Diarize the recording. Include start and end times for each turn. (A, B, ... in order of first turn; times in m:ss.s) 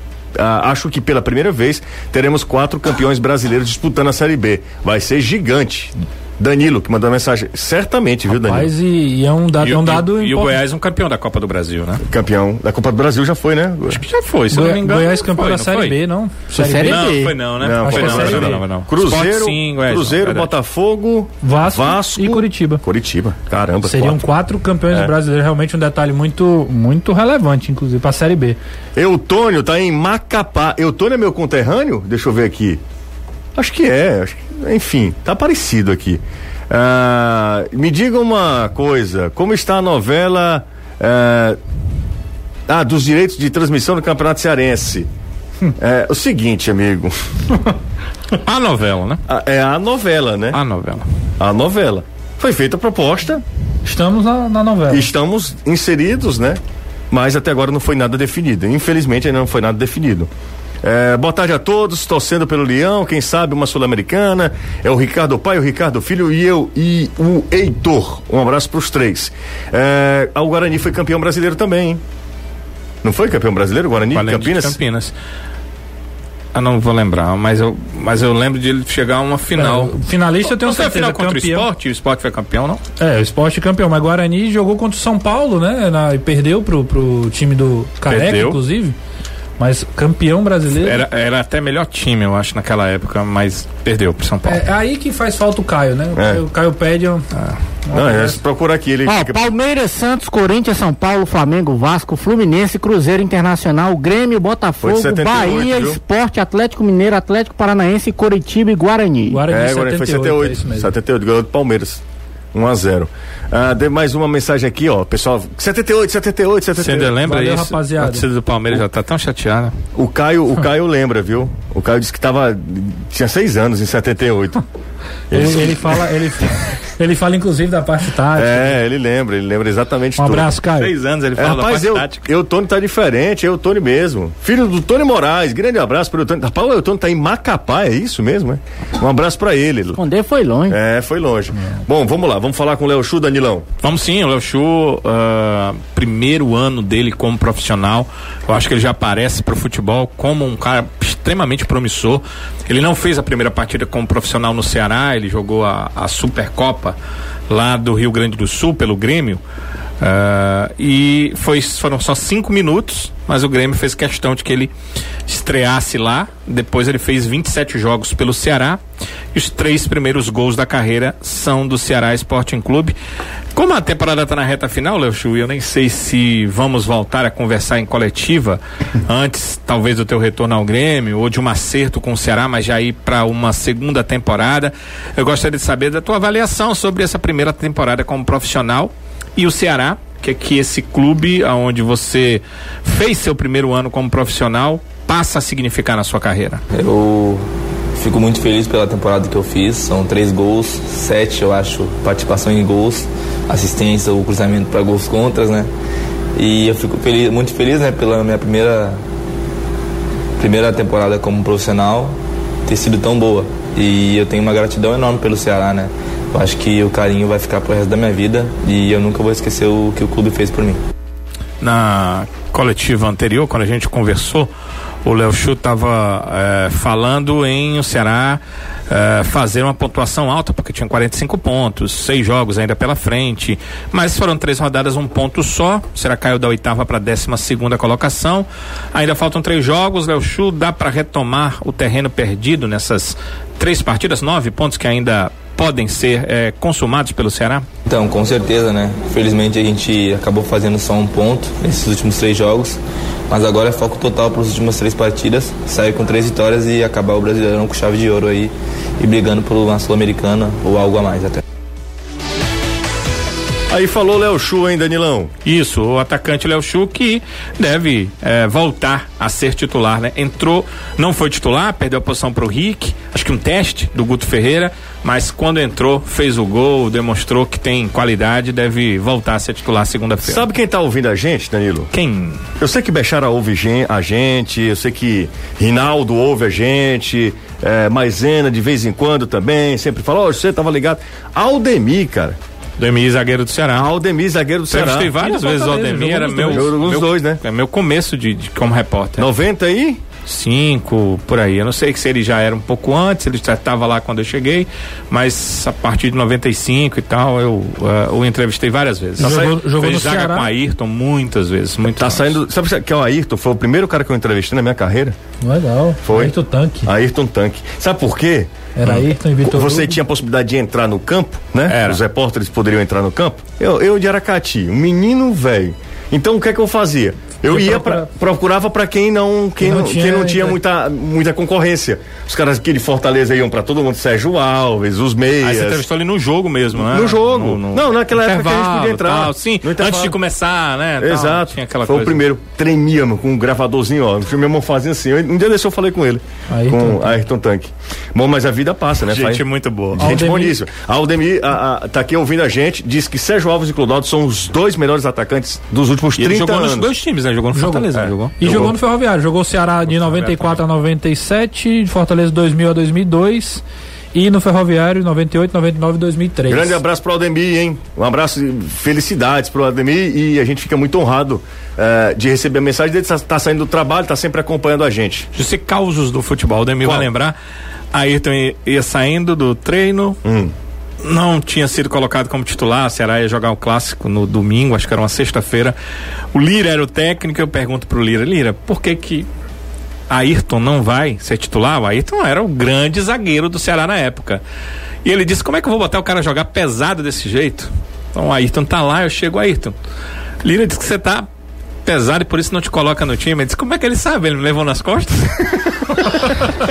0:00.3-0:08.7 A
0:08.3-0:10.6 B
0:09.6-0:12.0 C
0:12.0-0:14.0 A
0:13.9-0:16.0 C
0:14.5-0:17.2 B
0:16.5-0:17.4 D
0:16.8-0:20.5 C
0:17.6-0:24.2 A
0:17.8-0:18.6 B
0:21.4-0:22.8 B
0:23.8-0:28.6 B
0:24.9-0:25.1 A
0:29.0-0:32.8 A
0:33.6-0:41.6 A
0:42.7-0:45.1 A
0:45.8-0:47.1 A
0:48.4-0:49.2 C
0:49.3-0:50.6 A
0:50.5-0:51.0 C
0:51.4-0:53.4 A
0:53.8-0:55.1 B
0:54.9-1:00.3 A
1:00.8-1:12.0 A
1:13.0-1:14.8 A
1:14.1-1:15.1 C
1:16.5-1:22.8 C
1:19.6-1:21.7 B
1:23.0-1:29.0 B
1:28.1-1:28.6 C
1:29.6-1:31.0 B
1:30.7-1:34.6 C
1:34.4-1:37.2 B
1:36.1-1:36.4 A
1:37.8-1:38.4 B
1:37.9-1:39.4 A
1:39.0-1:49.4 D
1:44.8-1:46.0 A
1:49.3-1:50.9 B
1:49.5-1:52.0 A
1:52.5-1:57.2 A
1:56.8-1:59.7 C
1:57.2-1:58.2 B
1:59.9-2:04.6 A
2:05.3-2:06.1 A
2:05.3-2:08.8 B
2:08.3-2:10.5 A
2:10.2-2:10.9 B
2:10.8-2:12.2 C
2:11.4-2:20.0 A
2:20.0-2:20.8 D
2:20.7-2:23.6 A
2:23.8-2:37.0 C
2:37.5-2:39.4 C
2:40.0-2:44.7 C
2:45.3-2:48.8 C
2:49.3-2:52.9 C
2:53.5-3:16.6 C
3:16.7-3:25.7 E
3:26.3-3:29.0 E
3:30.4-3:40.8 E
3:41.6-3:44.5 C
3:45.0-4:07.6 C
4:07.9-4:21.4 E
4:23.7-4:25.3 A
4:25.4-4:40.5 C
4:40.2-4:41.9 A
4:41.9-4:42.4 C
4:42.6-4:52.4 A
4:52.8-4:53.9 C
4:53.8-4:55.2 A
4:54.7-4:59.3 C
4:55.2-4:56.7 B
4:56.5-4:57.4 A
4:59.2-5:00.0 A
5:00.2-5:12.4 C
5:09.2-5:10.5 B
5:09.2-5:09.6 A
5:12.0-5:15.2 A
5:15.4-5:16.9 B
5:16.0-5:35.8 A
5:18.8-5:20.0 B
5:21.7-5:22.0 C
5:27.5-5:28.1 B
5:29.6-5:30.6 B
5:35.4-5:42.2 C
5:36.7-5:40.2 A
5:41.0-5:56.9 A
5:46.5-5:47.2 B
5:49.1-5:50.1 C
5:50.0-5:50.6 B
5:56.2-5:58.4 C
5:57.5-6:03.6 B
5:57.9-5:58.8 A
5:59.9-6:00.6 C
6:04.1-6:06.8 B
6:06.5-6:15.3 A
6:15.3-6:17.3 C
6:16.8-6:17.1 A
6:17.9-6:20.2 C
6:20.2-6:20.5 A
6:21.0-6:25.8 C
6:26.3-6:29.3 C
6:30.1-6:34.4 C
6:35.0-6:39.7 C
6:40.4-6:41.2 C
6:41.8-6:46.3 C